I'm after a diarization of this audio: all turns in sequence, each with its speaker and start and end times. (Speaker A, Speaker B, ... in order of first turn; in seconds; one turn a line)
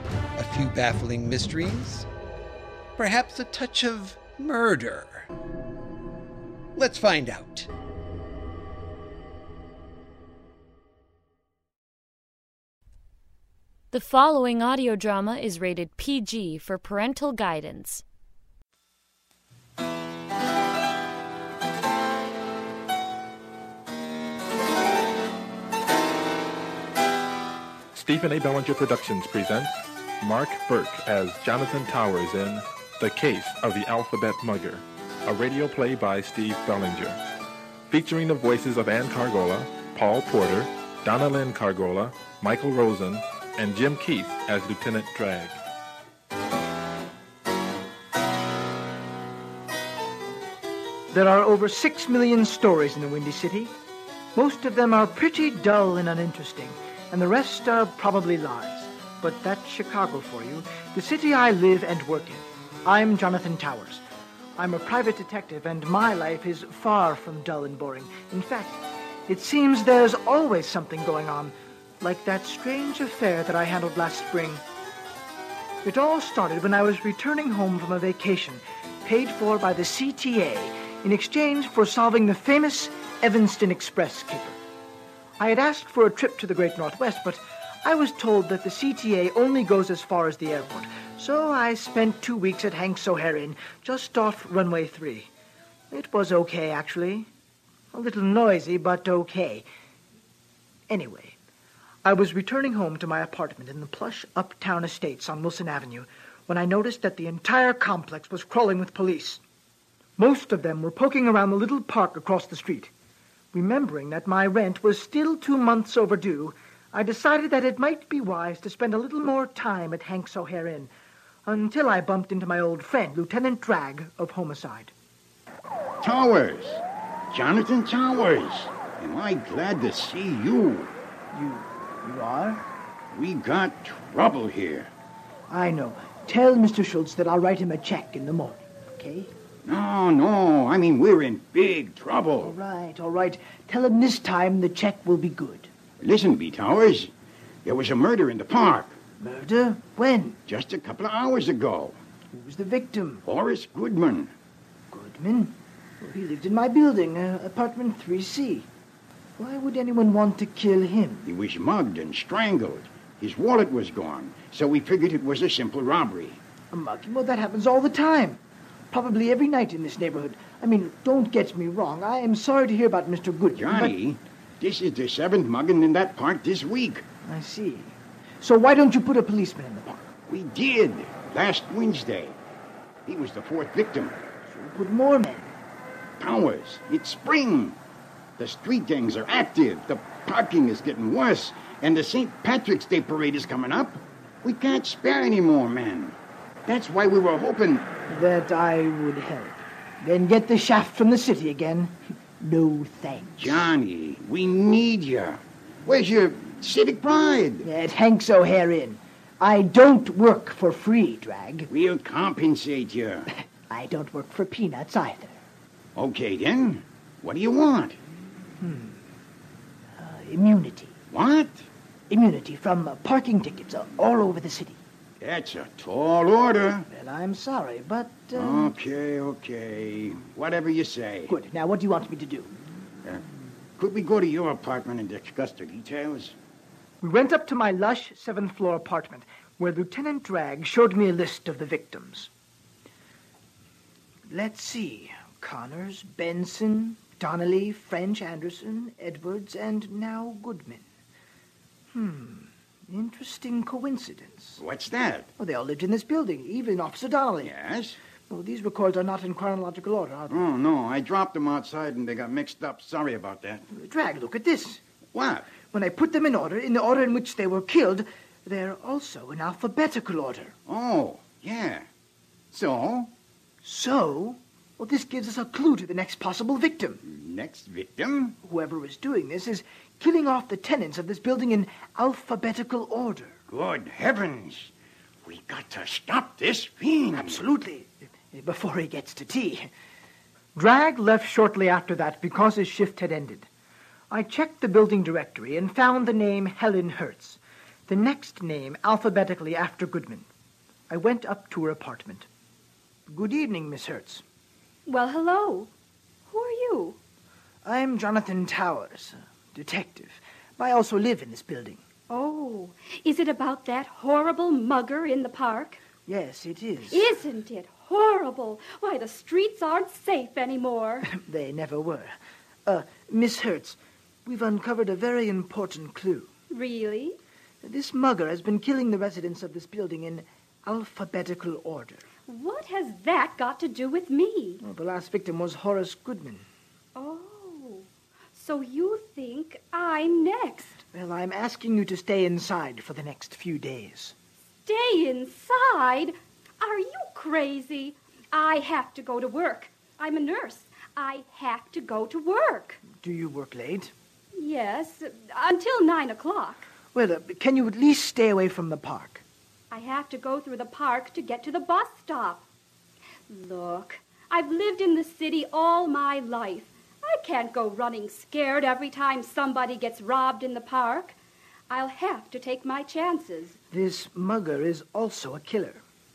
Speaker A: 0.4-2.1
Speaker A: 3.0-5.2
Speaker A: 6.8-7.7
Speaker B: 13.9-18.0
Speaker C: 27.9-37.2
Speaker C: 37.9-45.6
Speaker D: 51.1-53.7
Speaker D: 54.4-64.0
Speaker D: 64.6-74.6
Speaker D: 75.8-84.6
Speaker D: 85.4-95.3
Speaker D: 95.9-97.3
Speaker D: 97.9-99.7
Speaker D: 100.9-101.4
Speaker D: 102.0-109.4
Speaker D: 110.2-112.9
Speaker D: 113.5-120.9
Speaker D: 121.5-124.9
Speaker E: 126.0-130.9
Speaker D: 131.3-132.6
Speaker E: 133.1-134.9
Speaker D: 135.5-139.3
Speaker E: 139.7-142.6
Speaker D: 142.4-145.7
Speaker E: 146.0-147.1
Speaker E: 147.7-148.9
Speaker D: 149.2-150.4
Speaker E: 150.5-152.0
Speaker D: 152.3-153.2
Speaker E: 153.2-154.3
Speaker D: 154.9-158.7
Speaker D: 159.4-161.2
Speaker E: 161.2-166.4
Speaker D: 166.7-168.4
Speaker D: 168.9-174.0
Speaker E: 173.6-177.0
Speaker D: 177.2-180.1
Speaker E: 180.3-182.4
Speaker E: 183.1-184.2
Speaker D: 184.5-185.5
Speaker E: 186.2-187.8
Speaker E: 188.4-197.9
Speaker D: 198.1-203.7
Speaker E: 203.4-207.7
Speaker D: 207.6-211.7
Speaker E: 211.7-213.3
Speaker D: 213.7-215.4
Speaker E: 216.0-218.0
Speaker D: 218.6-219.0
Speaker D: 220.0-220.9
Speaker E: 221.1-221.7
Speaker D: 222.1-224.8
Speaker E: 225.2-226.9
Speaker D: 226.9-228.7
Speaker E: 228.3-231.3
Speaker D: 231.3-232.5
Speaker E: 233.8-236.4
Speaker D: 237.0-242.3
Speaker D: 244.3-250.8
Speaker D: 251.9-254.6
Speaker E: 254.6-255.3
Speaker D: 255.4-257.5
Speaker E: 257.4-258.0
Speaker D: 258.3-260.5
Speaker E: 260.3-263.7
Speaker D: 263.7-264.8
Speaker E: 265.1-265.5
Speaker D: 265.7-270.5
Speaker E: 270.7-271.9
Speaker E: 272.5-273.1
Speaker D: 273.6-277.0
Speaker E: 277.0-278.4
Speaker D: 278.4-283.3
Speaker E: 283.5-284.7
Speaker E: 285.2-287.4
Speaker D: 287.1-289.7
Speaker D: 290.6-293.5
Speaker D: 294.1-300.3
Speaker D: 300.9-302.3
Speaker D: 303.1-304.2
Speaker F: 304.9-305.7
Speaker F: 306.3-307.0
Speaker D: 307.6-311.8
Speaker F: 312.1-315.8
Speaker D: 316.1-317.1
Speaker F: 316.9-321.1
Speaker D: 321.1-322.1
Speaker D: 322.7-326.3
Speaker F: 326.5-327.2
Speaker D: 327.6-332.0
Speaker F: 332.3-334.6
Speaker D: 334.6-336.4
Speaker F: 336.9-340.8
Speaker D: 340.9-344.1
Speaker F: 344.6-352.8
Speaker D: 353.0-353.9
Speaker F: 354.4-356.6
Speaker D: 356.9-359.2
Speaker F: 359.7-362.4
Speaker F: 363.3-371.2
Speaker F: 371.7-373.6
Speaker D: 373.7-375.8